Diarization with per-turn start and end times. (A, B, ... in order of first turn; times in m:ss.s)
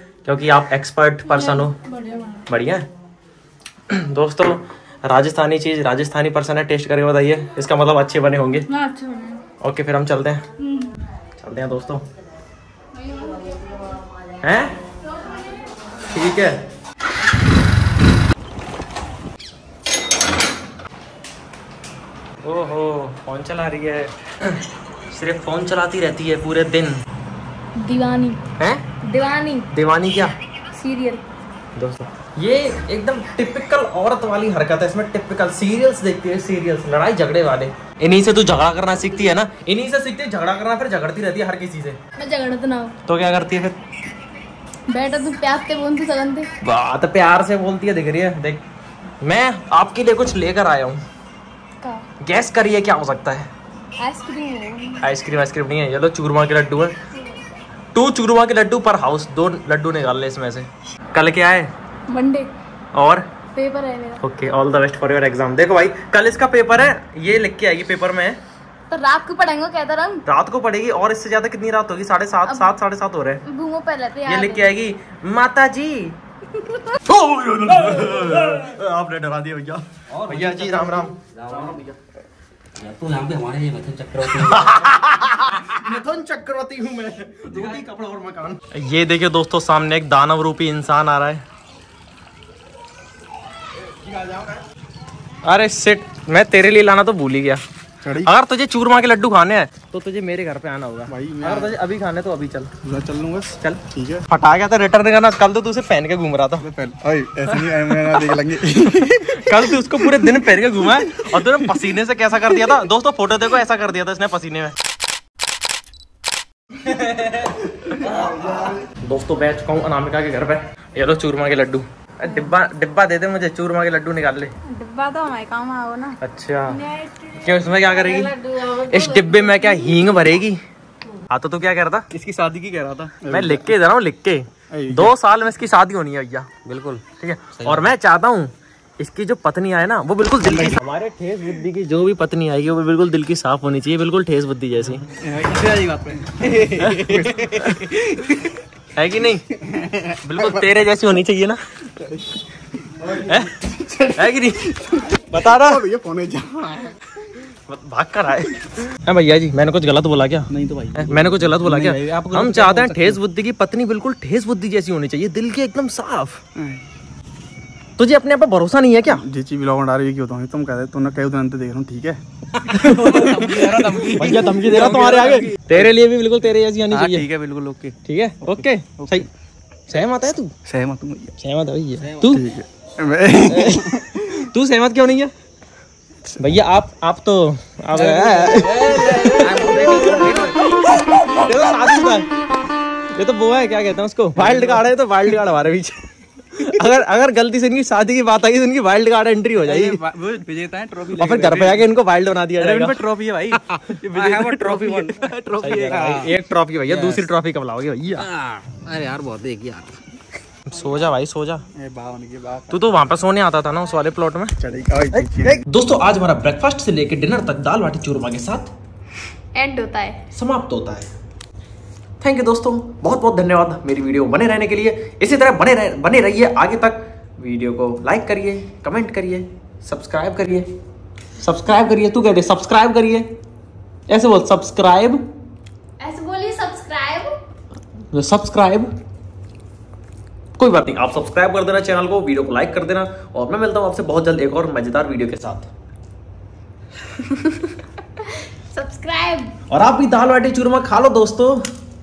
0:00.2-0:01.8 A
0:01.3-0:02.4 B
0:02.5-0:02.9 A
0:03.9-0:08.7 A
0:08.7-0:09.4 B
0:09.6-0:10.4 A
0:11.4-0:12.0 A
0:14.4-0:14.8 A
0:16.1-0:16.6 A
0:22.4-0:27.0 A
0:27.8-0:28.4 B
0:28.6-0:28.8 A
0:29.0-0:29.7 B
0:29.7-0:30.4 A
0:30.7-0:31.2 B
0:31.8-0:42.0 A
0:42.2-0:43.0 B
0:43.1-0:43.8 A
0:44.9-0:46.5 B
0:46.6-0:48.6 A
0:49.2-0:51.0 A
0:52.2-0:53.5 A
0:54.0-0:55.0 B
0:55.0-0:57.0 A
0:57.9-1:01.7 A
1:02.1-1:02.5 B
1:02.9-1:03.3 A
1:03.6-1:04.2 B
1:04.2-1:08.4 A
1:08.9-1:10.2 B
1:10.3-1:13.4 A
1:12.5-1:12.8 B
1:13.4-1:14.7 B
1:14.3-1:16.2 A
1:17.0-1:21.8 A
1:20.2-1:21.8 C
1:22.8-1:24.8 C
1:24.3-1:31.4 A
1:33.9-1:34.6 A
1:35.4-1:37.6 A
1:38.0-1:38.3 D
1:38.2-1:42.7 A
1:41.1-1:41.7 D
1:42.8-1:44.2 D
1:43.6-1:46.7 A
1:46.6-1:50.2 D
1:47.5-1:54.8 A
1:50.9-1:51.3 D
1:56.9-2:04.5 A
2:04.7-2:06.2 B
2:06.2-2:10.6 A
2:11.3-2:12.1 A
2:12.1-2:13.7 D
2:13.3-2:16.6 A
2:14.7-2:15.1 D
2:16.6-2:17.0 C
2:17.1-2:25.1 A
2:17.6-2:17.8 C
2:20.4-2:20.8 D
2:25.2-2:28.3 D
2:25.4-2:26.0 C
2:26.4-2:27.9 A
2:29.0-2:29.4 A
2:29.6-2:30.6 D
2:30.2-2:31.6 A
2:32.9-2:34.2 D
2:33.3-2:33.5 A
2:34.2-2:34.7 A
2:34.8-2:37.0 D
2:35.3-2:35.8 A
2:37.7-2:46.4 A
2:40.5-2:43.2 D
2:46.6-2:46.8 D
2:48.0-2:49.2 A
2:49.1-2:55.9 D
2:52.7-2:57.3 A
2:56.9-2:59.3 D
2:58.0-2:59.3 A
2:59.9-3:00.5 A
3:00.7-3:01.3 D
3:01.4-3:02.5 A
3:02.2-3:04.4 D
3:03.5-3:05.3 A
3:06.4-3:12.3 A
3:08.0-3:09.6 D
3:09.3-3:10.5 C
3:13.1-3:16.0 A
3:14.4-3:14.8 D
3:16.5-3:20.0 A
3:19.6-3:21.9 D
3:21.2-3:23.1 A
3:22.6-3:26.3 D
3:24.0-3:28.3 A
3:26.9-3:27.2 C
3:28.2-3:29.9 C
3:30.7-3:31.7 A
3:31.8-3:32.8 D
3:32.7-3:34.6 A
3:34.6-3:35.6 D
3:35.1-3:38.7 A
3:39.5-3:40.2 B
3:40.3-3:41.1 A
3:42.2-3:50.7 A
3:51.4-3:53.3 A
3:54.1-3:55.2 A
3:56.0-3:57.4 B
3:58.1-3:58.9 A
4:00.6-4:05.7 A
4:08.7-4:09.5 B
4:09.7-4:11.6 A